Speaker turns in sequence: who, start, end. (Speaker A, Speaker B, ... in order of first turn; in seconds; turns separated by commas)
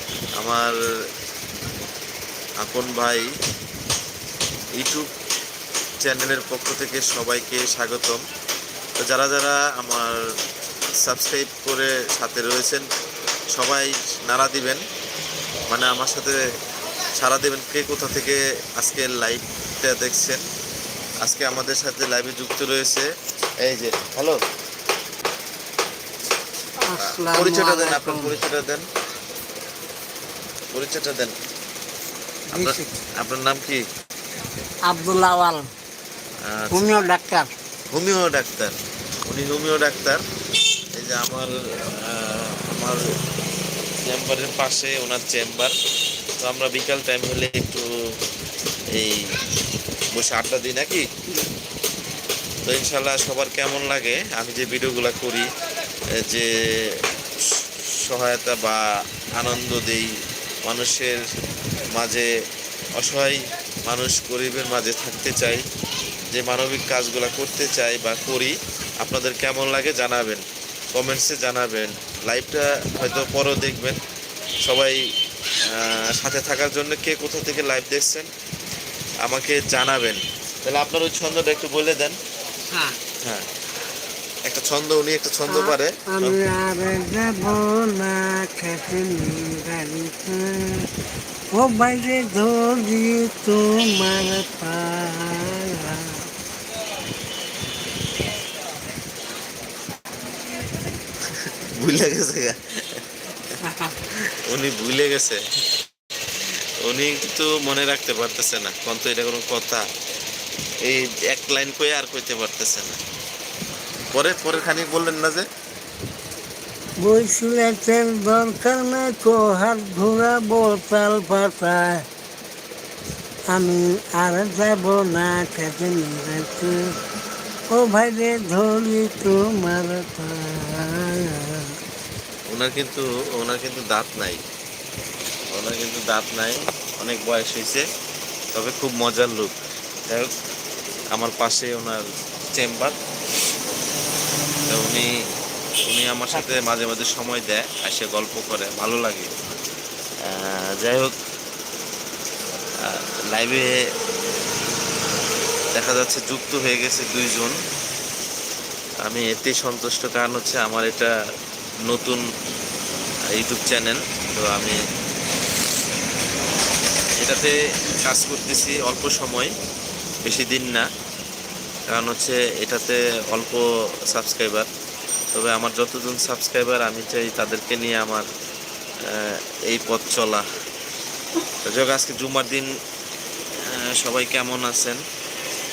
Speaker A: 0.4-0.8, Speaker A: 2.6-3.3, Speaker A: 4.7-5.1, Speaker A: 6.0-8.2, Speaker A: 9.0-10.2, Speaker A: 11.0-12.9, Speaker A: 13.5-14.8, Speaker A: 15.7-16.4, Speaker A: 17.1-20.4, Speaker A: 21.2-23.1, Speaker A: 23.6-24.4, Speaker B: 26.8-28.4, Speaker A: 27.0-28.9, Speaker A: 30.7-31.3, Speaker B: 32.5-33.0, Speaker A: 32.5-33.8, Speaker B: 34.9-35.7, Speaker A: 36.4-36.9, Speaker B: 36.7-37.5, Speaker A: 37.9-38.7, Speaker A: 39.2-40.2, Speaker A: 40.9-43.0, Speaker A: 44.0-45.7, Speaker A: 46.4-47.9, Speaker A: 48.9-49.3, Speaker A: 50.1-51.1, Speaker A: 52.6-55.5, Speaker A: 56.1-57.0, Speaker A: 57.5-60.1, Speaker A: 60.6-61.2, Speaker A: 61.9-62.3, Speaker A: 63.0-65.6, Speaker A: 66.3-74.0, Speaker A: 74.6-75.0, Speaker A: 75.6-78.3, Speaker A: 79.2-82.2, Speaker B: 82.7-83.0, Speaker A: 84.5-86.4, Speaker B: 85.5-90.9, Speaker B: 91.5-96.2, Speaker A: 101.3-103.0, Speaker B: 103.6-104.0, Speaker A: 104.4-105.4, Speaker A: 106.8-109.9, Speaker A: 110.8-113.0, Speaker A: 114.1-115.5, Speaker B: 117.0-122.0, Speaker B: 123.5-126.8, Speaker B: 127.7-131.8, Speaker A: 132.5-134.4, Speaker A: 135.5-137.8, Speaker A: 138.5-139.6, Speaker A: 140.1-140.3, Speaker A: 141.1-142.9, Speaker A: 144.6-145.1, Speaker A: 145.8-149.3, Speaker A: 150.2-151.1, Speaker A: 152.8-153.8, Speaker A: 155.7-157.6, Speaker A: 159.0-161.1, Speaker A: 161.9-162.2, Speaker A: 163.3-164.8, Speaker A: 167.2-169.5, Speaker A: 170.2-170.9, Speaker A: 171.9-174.7, Speaker A: 175.3-178.3, Speaker A: 179.1-180.4, Speaker A: 181.7-182.7, Speaker A: 183.7-185.0